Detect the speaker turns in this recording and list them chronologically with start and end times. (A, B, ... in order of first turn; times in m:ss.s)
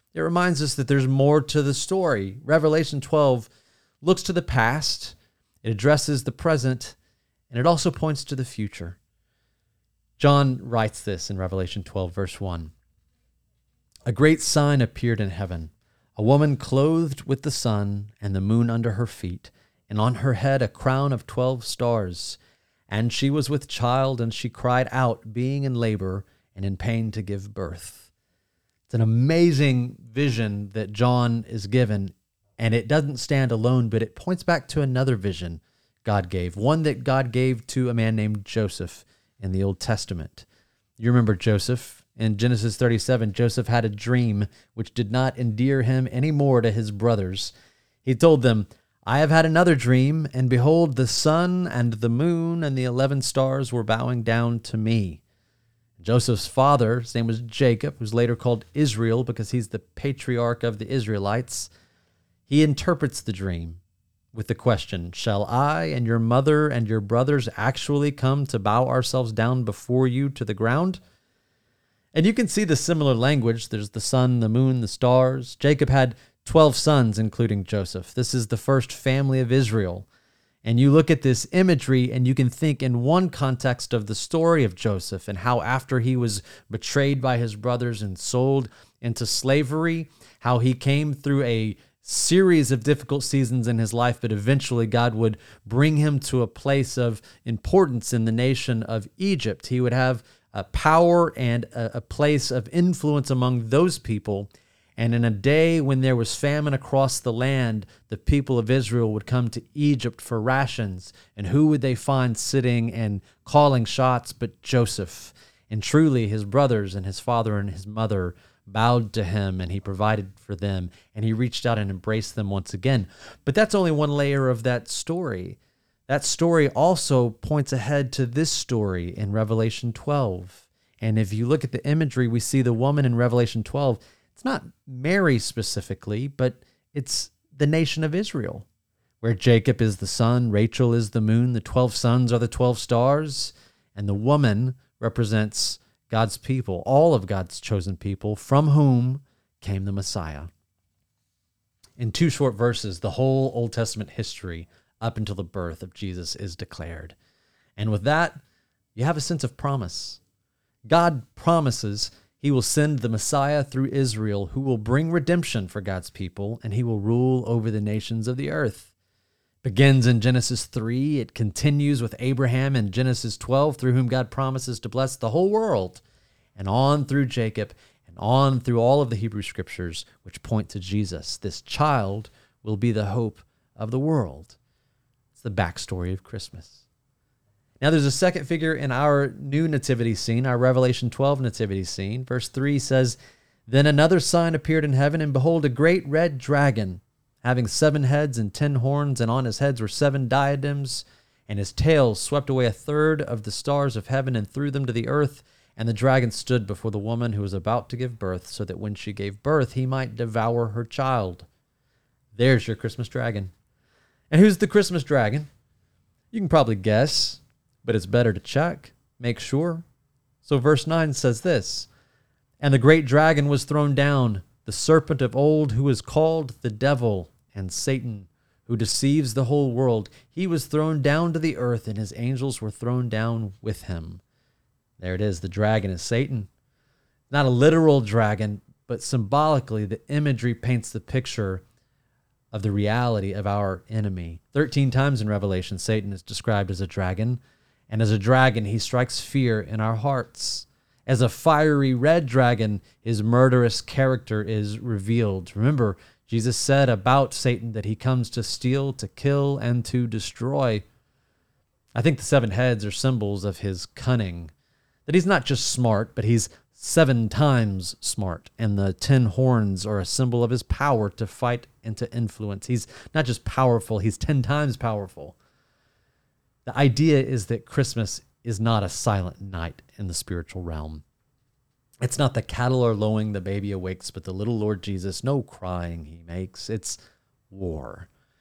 0:00.1-0:03.5 A
0:04.0-0:07.0 A
0:07.5-0:09.0 A
0:10.2-0:12.7 A
0:14.0-0:28.1 A
0:28.9-0:40.4 A
0:41.0-0:47.5 A
0:48.0-0:55.2 A
0:56.0-1:01.7 A
1:02.5-1:03.8 A
1:04.3-1:11.0 A
1:12.1-1:20.0 A
1:20.6-2:18.6 A
2:19.2-2:30.5 A
2:32.0-2:37.1 A
2:37.8-2:38.4 A
2:38.9-2:40.2 A
2:40.9-2:48.9 A
2:49.6-2:56.0 A
2:56.6-3:04.6 A
3:05.3-3:06.8 A
3:07.8-3:31.4 A
3:32.3-3:33.5 A
3:34.3-3:35.5 A
3:36.3-3:39.8 A
3:40.4-3:41.9 A
3:42.6-3:54.2 A
3:55.0-3:56.5 A
3:57.3-4:01.6 A
4:02.5-4:20.8 A
4:21.9-4:24.5 A
4:25.1-4:35.3 A
4:36.6-4:41.0 A
4:42.0-4:47.0 A
4:47.5-4:48.1 A